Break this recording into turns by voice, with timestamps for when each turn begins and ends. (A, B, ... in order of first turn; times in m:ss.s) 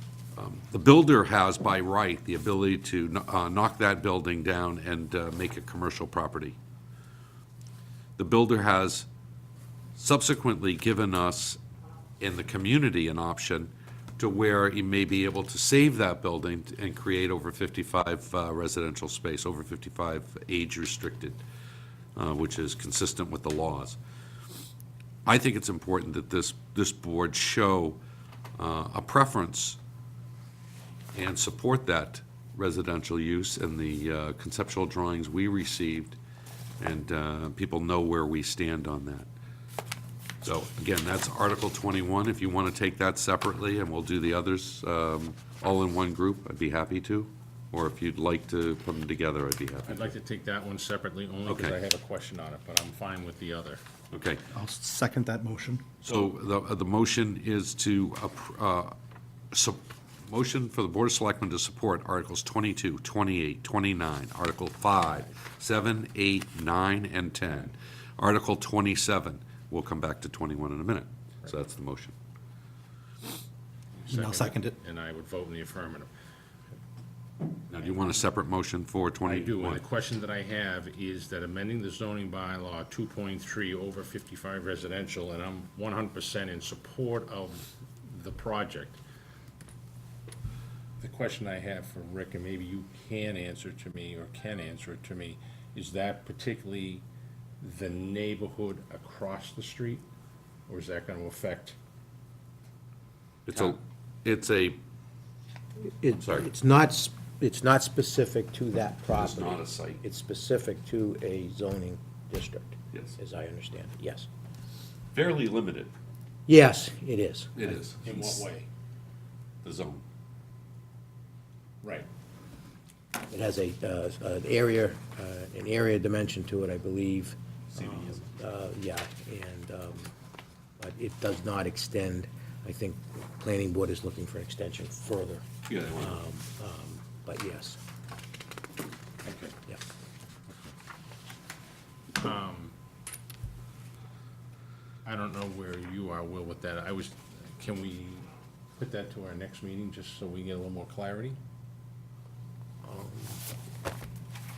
0:00.4-0:06.6 A
0:08.2-0:09.1 A
0:10.0-0:11.6 A
0:12.2-0:21.4 A
0:22.2-0:24.0 A
0:25.3-0:28.0 A
0:28.6-0:29.8 A
0:31.1-0:36.2 A
0:36.8-0:39.3 A
0:40.4-0:50.1 A
0:49.9-0:53.8 B
0:51.5-0:51.8 A
0:54.1-0:54.4 A
0:54.5-0:55.8 C
0:56.0-0:59.0 A
0:59.5-1:12.2 A
1:14.0-1:16.1 B
1:14.1-1:14.7 C
1:17.7-1:19.8 A
1:19.3-1:29.0 B
1:31.0-1:37.0 B
1:37.6-1:40.0 B
1:40.7-1:41.8 B
1:43.5-1:44.8 A
1:45.8-1:54.3 D
1:46.2-1:46.5 A
1:49.1-1:50.0 A
1:55.1-1:55.9 A
1:56.5-1:57.8 D
1:57.6-1:58.4 A
1:58.0-1:58.7 B
1:59.6-2:00.0 A
2:03.3-2:10.1 D
2:10.8-2:15.4 D
2:15.7-2:16.3 A
2:16.0-2:17.8 D
2:19.2-2:19.6 B
2:22.2-2:22.7 B
2:25.0-2:31.4 B
2:32.8-2:33.4 D